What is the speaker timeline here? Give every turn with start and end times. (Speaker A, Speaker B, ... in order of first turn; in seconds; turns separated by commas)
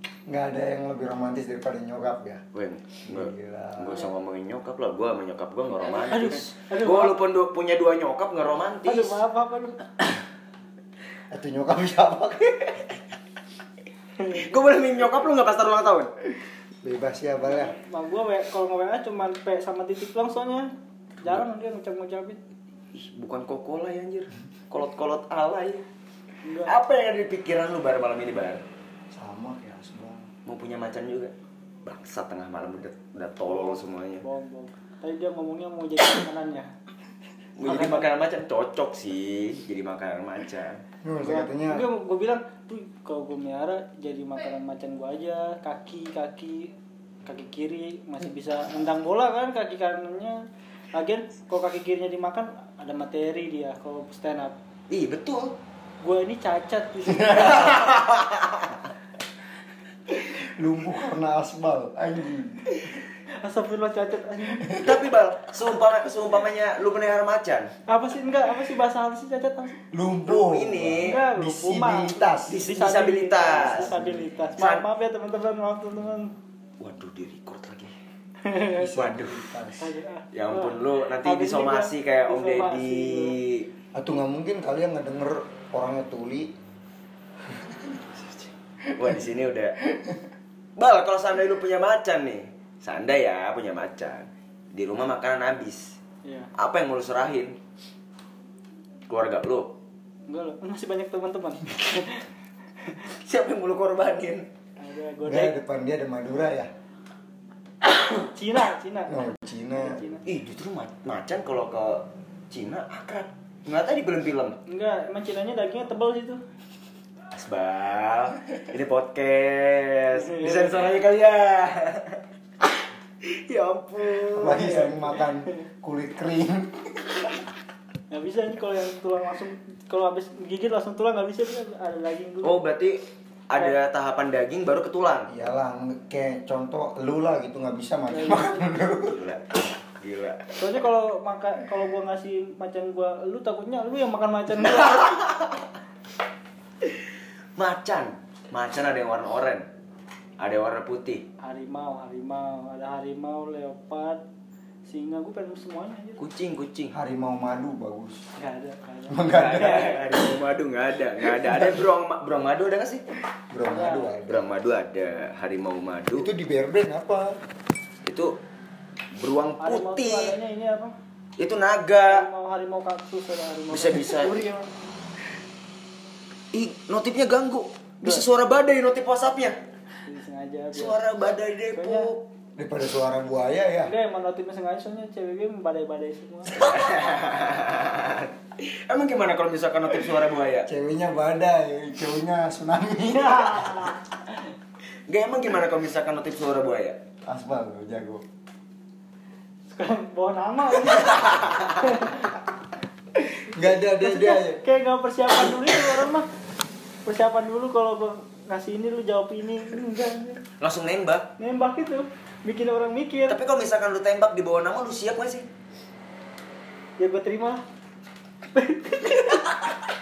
Speaker A: 0.3-2.4, Speaker B: 2.5-9.2, Speaker A: 3.1-4.1, Speaker C: 5.9-7.2, Speaker C: 8.8-9.8, Speaker A: 11.3-13.0, Speaker C: 14.2-14.6, Speaker B: 14.3-16.1, Speaker A: 16.8-17.8, Speaker C: 17.4-20.7, Speaker C: 21.2-22.4, Speaker B: 22.9-25.9, Speaker C: 26.4-26.7, Speaker B: 26.7-28.6, Speaker A: 29.1-30.3, Speaker B: 30.5-31.3, Speaker B: 31.9-34.2, Speaker C: 33.5-36.7, Speaker B: 37.6-40.8, Speaker C: 37.6-38.1, Speaker A: 41.0-41.9, Speaker C: 41.2-46.7, Speaker C: 47.2-50.4, Speaker C: 50.9-54.6, Speaker B: 54.9-55.5, Speaker C: 56.0-57.8, Speaker A: 57.1-57.9, Speaker A: 60.1-62.6, Speaker C: 63.4-64.8, Speaker A: 64.6-65.0, Speaker B: 64.8-67.7, Speaker C: 67.9-69.8, Speaker A: 69.9-72.6, Speaker B: 70.3-71.2, Speaker C: 71.0-76.3, Speaker B: 72.5-73.9, Speaker A: 73.5-74.5, Speaker B: 74.6-74.8, Speaker B: 76.8-77.9, Speaker C: 78.4-78.9, Speaker A: 78.7-79.9, Speaker B: 79.0-79.4, Speaker C: 79.8-83.4, Speaker B: 80.3-83.7, Speaker A: 83.9-86.5, Speaker A: 87.5-89.2, Speaker B: 89.0-89.8, Speaker A: 89.9-90.2, Speaker B: 90.8-96.0, Speaker C: 96.2-96.5, Speaker B: 96.6-97.6, Speaker B: 99.1-99.7, Speaker C: 100.3-102.3, Speaker B: 103.1-104.5, Speaker C: 104.8-105.6, Speaker A: 105.2-106.7, Speaker C: 108.1-110.2, Speaker A: 109.1-110.0, Speaker B: 110.3-114.6, Speaker C: 114.7-116.4, Speaker B: 117.3-122.2, Speaker C: 120.2-120.9, Speaker B: 123.2-124.9, Speaker A: 124.3-127.4, Speaker C: 124.5-125.1, Speaker C: 128.1-132.6, Speaker B: 132.4-135.3, Speaker A: 135.3-139.2, Speaker C: 138.1-138.7, Speaker B: 139.0-140.6, Speaker C: 140.6-145.2, Speaker B: 147.6-149.7, Speaker B: 150.4-151.2, Speaker C: 151.4-154.2, Speaker C: 154.9-156.2, Speaker B: 156.2-156.9, Speaker A: 156.9-158.2, Speaker C: 158.4-160.1, Speaker A: 159.1-159.9, Speaker B: 159.3-163.0, Speaker A: 161.4-161.8, Speaker A: 163.5-164.5, Speaker C: 163.7-164.2, Speaker B: 164.3-166.3, Speaker A: 166.2-167.4, Speaker B: 168.0-168.3, Speaker B: 169.2-170.4, Speaker C: 169.6-170.9, Speaker B: 171.4-172.3, Speaker C: 172.1-174.7, Speaker B: 173.7-174.4, Speaker B: 176.5-179.6, Speaker C: 180.1-181.0, Speaker B: 180.7-182.2, Speaker C: 181.8-182.1, Speaker A: 182.6-183.9, Speaker C: 183.9-186.6, Speaker B: 186.5-190.7, Speaker A: 190.7-193.9, Speaker C: 193.1-194.0, Speaker B: 195.1-197.0, Speaker A: 197.3-198.2, Speaker C: 199.7-202.3, Speaker B: 201.1-201.5, Speaker A: 203.5-204.6, Speaker C: 204.0-206.3, Speaker C: 207.1-210.4, Speaker B: 210.6-211.3, Speaker C: 211.4-213.4, Speaker B: 213.3-215.5, Speaker C: 217.0-217.6, Speaker C: 218.6-219.5